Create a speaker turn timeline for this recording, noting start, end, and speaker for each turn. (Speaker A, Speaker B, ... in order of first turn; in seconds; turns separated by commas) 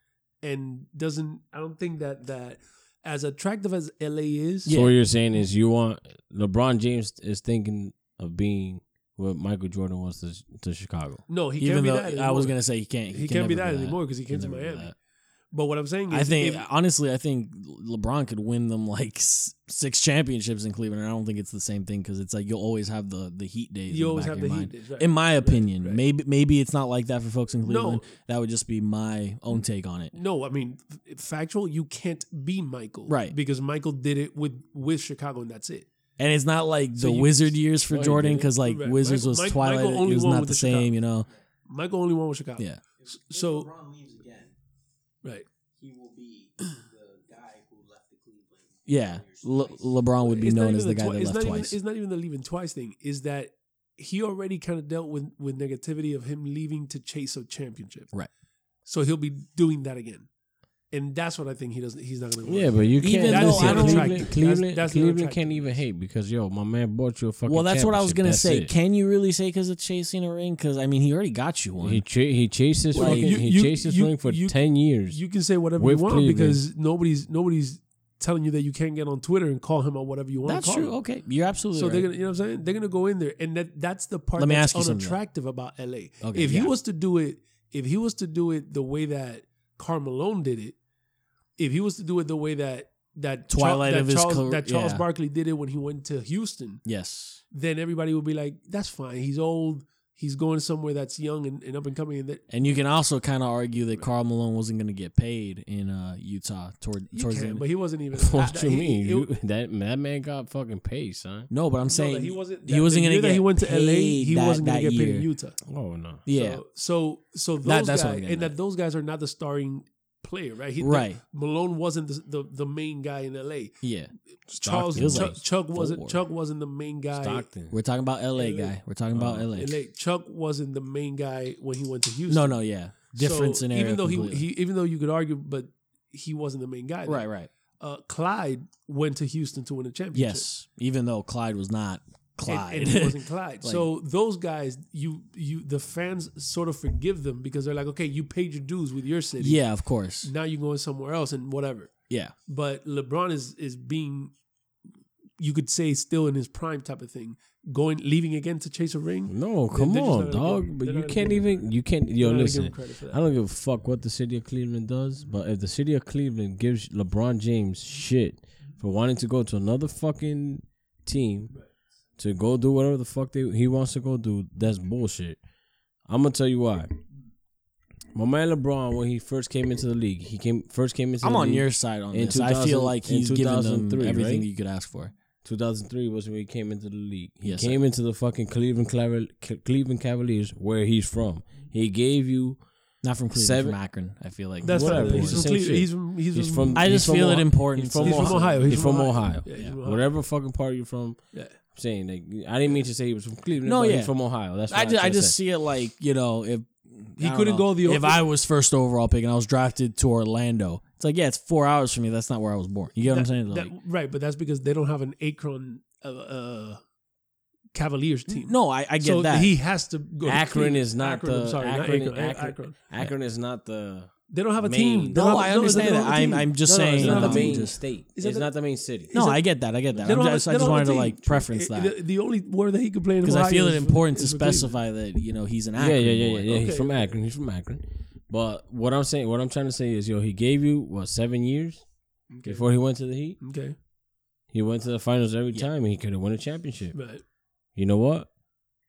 Speaker A: 0.4-4.7, Speaker B: 4.6-5.0, Speaker C: 4.7-11.2, Speaker A: 11.3-12.6, Speaker B: 11.6-14.9, Speaker A: 13.1-14.9, Speaker A: 15.5-16.7, Speaker B: 16.1-30.1, Speaker A: 23.9-26.0, Speaker A: 27.6-28.1, Speaker A: 30.1-35.9, Speaker B: 33.1-33.4, Speaker B: 36.2-41.3, Speaker A: 36.9-37.6, Speaker C: 37.9-38.5, Speaker A: 38.5-41.0, Speaker A: 41.7-43.7, Speaker D: 43.0-44.5, Speaker D: 45.8-49.9, Speaker B: 48.9-51.8, Speaker A: 50.2-58.1, Speaker A: 58.8-60.3, Speaker A: 60.9-65.7, Speaker C: 62.4-68.7, Speaker B: 63.0-64.3, Speaker B: 67.4-72.0, Speaker C: 71.8-76.6, Speaker B: 72.9-73.4, Speaker A: 72.9-81.0, Speaker B: 80.4-82.1, Speaker A: 81.7-90.8, Speaker B: 84.4-85.2, Speaker B: 86.2-86.7, Speaker A: 91.6-96.8, Speaker B: 93.5-95.0, Speaker B: 96.8-97.4, Speaker A: 97.5-102.4, Speaker B: 102.5-107.6, Speaker A: 107.1-109.3, Speaker C: 108.1-111.5, Speaker B: 111.5-115.3, Speaker A: 111.8-115.6, Speaker C: 115.7-116.2, Speaker B: 116.2-116.6, Speaker A: 116.3-123.8, Speaker B: 117.6-118.5, Speaker B: 120.8-121.2, Speaker B: 123.8-124.1, Speaker A: 124.5-127.5, Speaker C: 124.6-125.4, Speaker B: 124.9-126.2, Speaker C: 127.1-127.8, Speaker B: 127.7-129.8, Speaker A: 128.3-128.7, Speaker C: 129.1-129.5, Speaker A: 129.5-132.6, Speaker B: 132.3-134.5, Speaker A: 133.1-137.3, Speaker B: 137.1-137.5, Speaker A: 137.8-140.5, Speaker B: 140.1-143.9, Speaker A: 142.4-149.6, Speaker B: 149.4-150.3, Speaker A: 150.2-151.9, Speaker B: 152.1-152.3, Speaker A: 152.4-154.3, Speaker A: 155.4-163.2, Speaker C: 159.3-171.5, Speaker C: 172.2-175.4, Speaker C: 176.1-176.9, Speaker C: 178.1-184.5, Speaker B: 181.2-185.1, Speaker C: 185.4-192.6, Speaker B: 187.4-187.8, Speaker B: 193.0-195.5, Speaker C: 193.2-193.8, Speaker A: 194.6-196.9, Speaker C: 194.7-205.4, Speaker B: 196.7-199.7, Speaker A: 198.0-200.1, Speaker B: 203.6-213.7, Speaker A: 207.2-208.2, Speaker A: 213.0-216.8, Speaker A: 217.7-222.8, Speaker B: 218.3-219.6, Speaker C: 220.2-229.1, Speaker A: 224.3-229.5, Speaker B: 225.1-227.8, Speaker B: 229.1-231.9, Speaker C: 229.9-231.2, Speaker A: 230.0-234.8, Speaker B: 233.2-236.7, Speaker C: 235.8-243.4, Speaker A: 236.5-237.1, Speaker A: 242.3-242.8, Speaker A: 243.4-243.7, Speaker C: 244.5-247.0, Speaker A: 246.9-247.2, Speaker C: 247.7-248.3